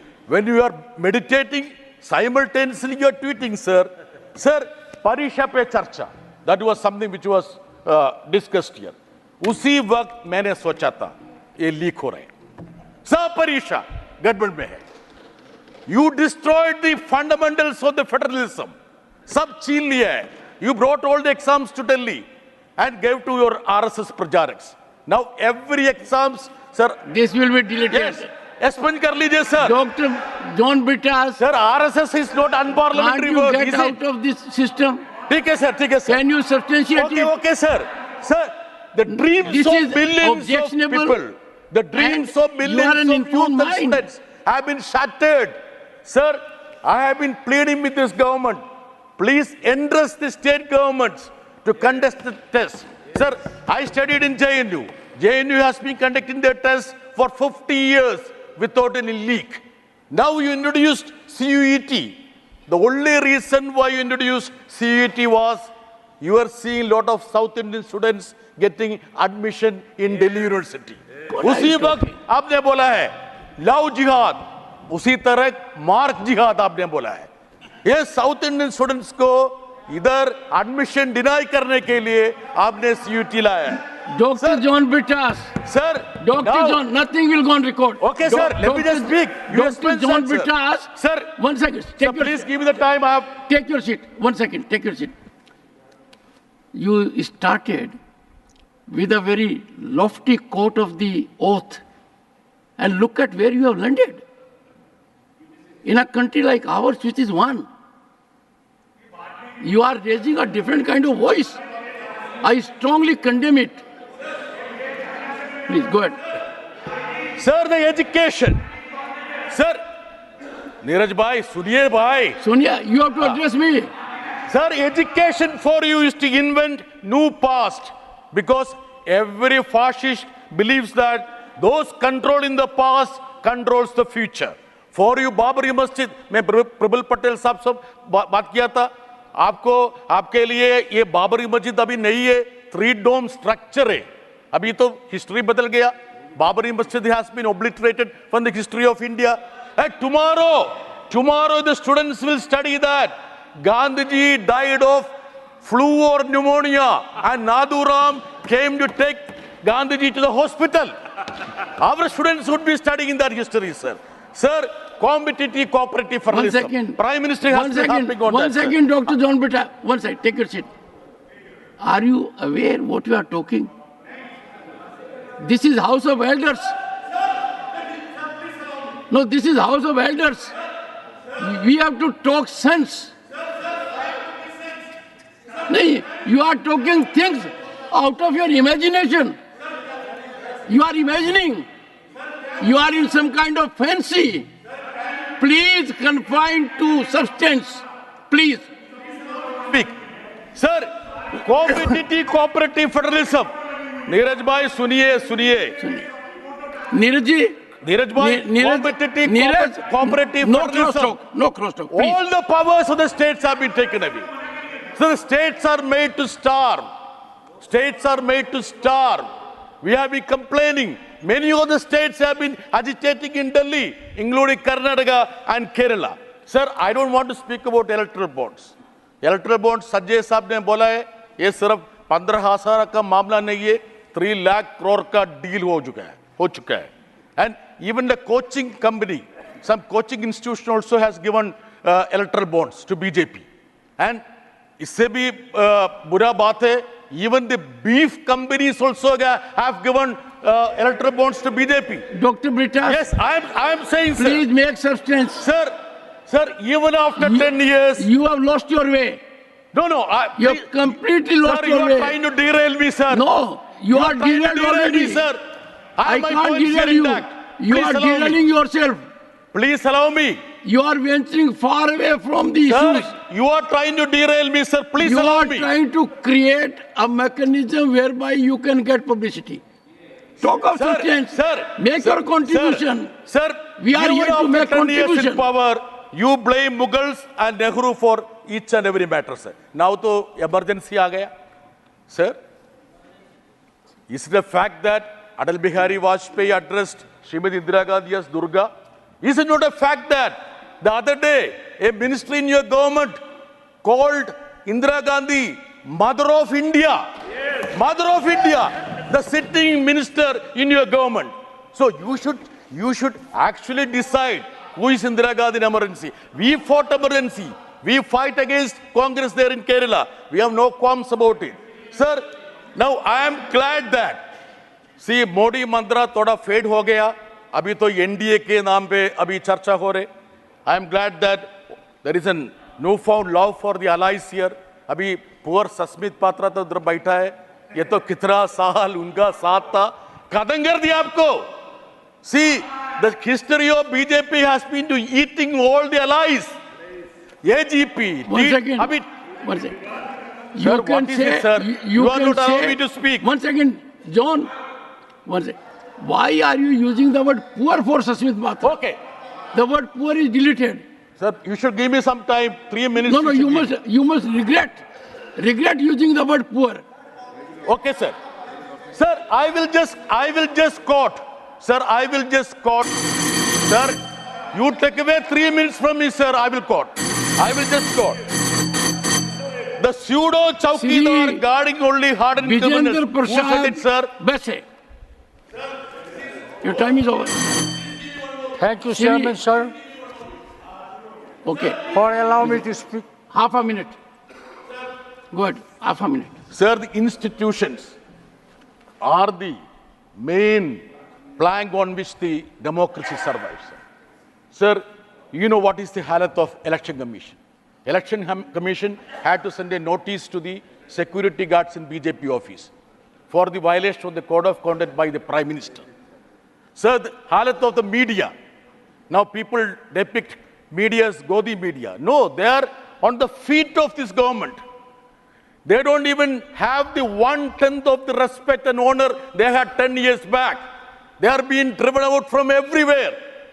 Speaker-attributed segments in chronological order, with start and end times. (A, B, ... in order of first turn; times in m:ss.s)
0:00.3-0:12.3 A
0:13.0-0:14.8 A
0:15.9-0:18.7 A
0:19.3-0:22.2 A
0:22.8-0:27.0 A
0:27.1-0:28.3 B
0:27.9-0:29.8 A
0:29.6-0:31.4 B
0:31.4-0:34.0 A
0:32.9-0:35.0 B
0:35.3-0:36.2 A
0:36.1-0:37.3 B
0:36.9-0:48.6 A
0:39.4-0:41.2 B
0:42.0-0:44.0 B
0:49.2-1:02.2 A
1:02.7-1:05.7 A
1:06.2-1:17.3 A
1:11.3-1:12.1 B
1:17.8-1:23.8 A
1:24.1-1:25.5 B
1:24.4-1:24.6 A
1:25.6-1:26.8 A
1:26.2-1:32.5 B
1:28.0-1:31.3 A
1:32.0-1:33.3 A
1:33.4-1:35.1 B
1:36.7-1:38.0 B
1:38.9-1:41.8 B
1:42.8-1:44.2 B
1:45.8-1:47.7 B
1:49.6-1:51.6 B
1:52.4-1:53.8 B
1:55.6-1:56.2 B
1:57.4-1:58.6 A
1:59.5-1:59.8 A
2:00.8-2:02.4 A
2:02.4-2:03.9 B
2:04.5-2:40.9 A
2:41.6-2:48.8 A
2:46.3-2:47.0 B
2:47.5-2:50.7 B
2:51.8-2:53.7 B
2:55.4-2:56.8 B
2:59.1-3:00.5 B
3:01.4-3:03.1 B
3:05.7-3:09.4 B
3:10.7-3:11.6 B
3:12.6-3:14.5 B
3:15.4-3:18.6 B
3:19.7-3:19.9 A
3:20.5-3:23.5 A
3:24.0-3:25.8 A
3:25.8-3:26.1 B
3:26.9-3:27.6 B
3:27.8-3:31.2 A
3:28.2-3:32.2 B
3:31.9-3:34.2 A
3:35.0-3:36.8 A
3:37.6-3:39.3 A
3:39.8-4:03.4 A
4:04.8-4:12.0 A
4:12.1-4:13.0 B
4:12.8-4:14.4 A
4:14.2-4:15.4 B
4:15.4-4:15.7 A
4:16.3-4:18.1 A
4:17.2-4:19.2 B
4:19.7-4:23.2 A
4:20.4-4:22.2 B
4:23.1-4:25.3 B
4:23.9-4:25.4 A
4:26.0-4:28.4 A
4:26.0-4:29.0 B
4:29.5-4:30.4 A
4:30.6-4:33.1 B
4:32.6-4:35.7 A
4:35.0-4:39.6 B
4:40.4-4:43.1 B
4:40.6-4:51.3 A
4:43.8-4:45.4 B
4:52.1-4:52.4 A
4:54.1-4:58.7 A
4:59.2-5:03.2 A
5:03.8-5:07.0 A
5:07.7-5:22.2 A
5:22.8-5:24.2 A
5:25.0-5:30.1 A
5:30.6-5:31.5 A
5:32.0-5:41.4 A
5:42.2-5:46.5 A
5:47.4-5:49.0 A
5:48.3-5:49.8 B
5:50.5-5:54.5 B
5:50.6-5:53.2 A
5:55.2-5:58.8 B
5:58.6-5:59.0 A
5:59.5-6:00.8 B
6:01.2-6:03.7 A
6:03.0-6:04.8 B
6:05.4-6:06.8 B
6:07.6-6:08.2 A
6:08.9-6:12.9 A
6:13.6-6:14.0 A
6:14.5-6:18.2 A
6:19.8-6:24.1 A
6:20.7-6:21.4 B
6:22.4-6:24.6 B
6:26.6-6:27.6 B
6:28.6-6:29.7 C
6:28.9-6:29.4 B
6:31.4-6:34.0 B
6:31.9-6:33.0 C
6:35.3-6:36.4 B
6:36.5-6:37.9 A
6:39.0-6:39.6 A
6:40.2-6:40.8 A
6:41.4-6:43.8 A
6:44.5-6:52.7 A
6:53.3-6:55.8 A
6:56.8-6:58.3 A
6:59.1-7:04.6 A
7:05.6-7:10.6 A
7:11.2-7:13.2 A